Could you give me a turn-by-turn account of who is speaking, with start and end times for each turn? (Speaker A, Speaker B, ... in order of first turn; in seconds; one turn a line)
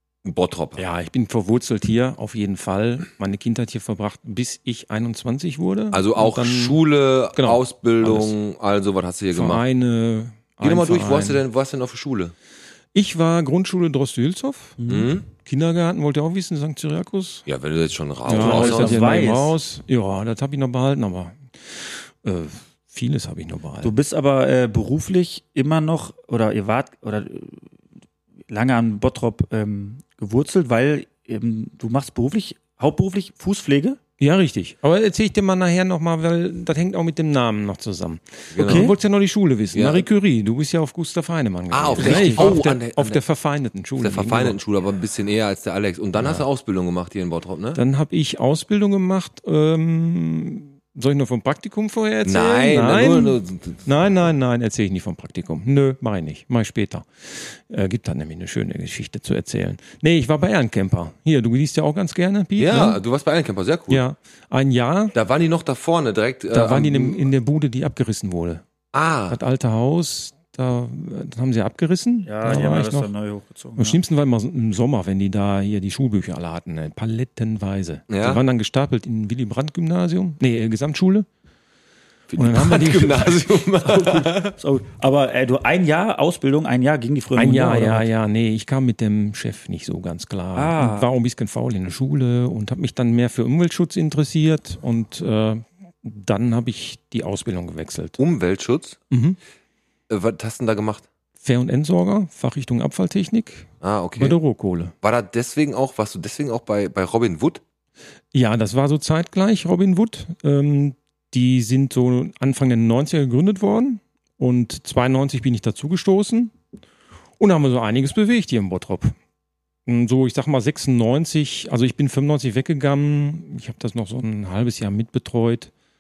Speaker A: 0.2-0.8
Speaker B: 0.8-6.8
Speaker A: 5.9-9.6
Speaker B: 7.4-8.3
Speaker B: 9.3-11.4
Speaker A: 10.6-12.3
Speaker B: 12.9-14.8
Speaker C: 14.8-15.1
Speaker A: 14.9-15.3
Speaker B: 15.3-17.5
Speaker A: 17.5-19.1
Speaker B: 18.3-23.9
Speaker C: 18.3-19.6
Speaker C: 23.8-27.7
Speaker C: 28.5-34.0
Speaker B: 34.2-44.6
Speaker A: 38.5-38.9
Speaker C: 38.6-38.9
Speaker A: 39.7-40.1
Speaker A: 41.7-43.2
Speaker C: 42.0-42.6
Speaker A: 44.0-47.8
Speaker B: 46.2-46.4
Speaker B: 47.8-63.0
Speaker A: 52.2-53.9
Speaker A: 62.6-64.0
Speaker B: 63.9-65.2
Speaker A: 65.1-67.3
Speaker B: 66.5-68.6
Speaker A: 68.9-69.4
Speaker B: 69.3-73.1
Speaker C: 72.2-74.0
Speaker B: 73.8-81.3
Speaker A: 78.1-78.4
Speaker A: 82.3-84.5
Speaker B: 82.4-83.5
Speaker C: 83.8-88.1
Speaker B: 87.4-98.2
Speaker C: 90.6-91.1
Speaker A: 98.2-99.0
Speaker B: 99.1-99.4
Speaker A: 100.1-101.1
Speaker B: 101.4-104.9
Speaker A: 103.8-104.4
Speaker A: 105.0-107.6
Speaker B: 108.3-116.5
Speaker B: 117.4-119.2
Speaker B: 119.9-125.7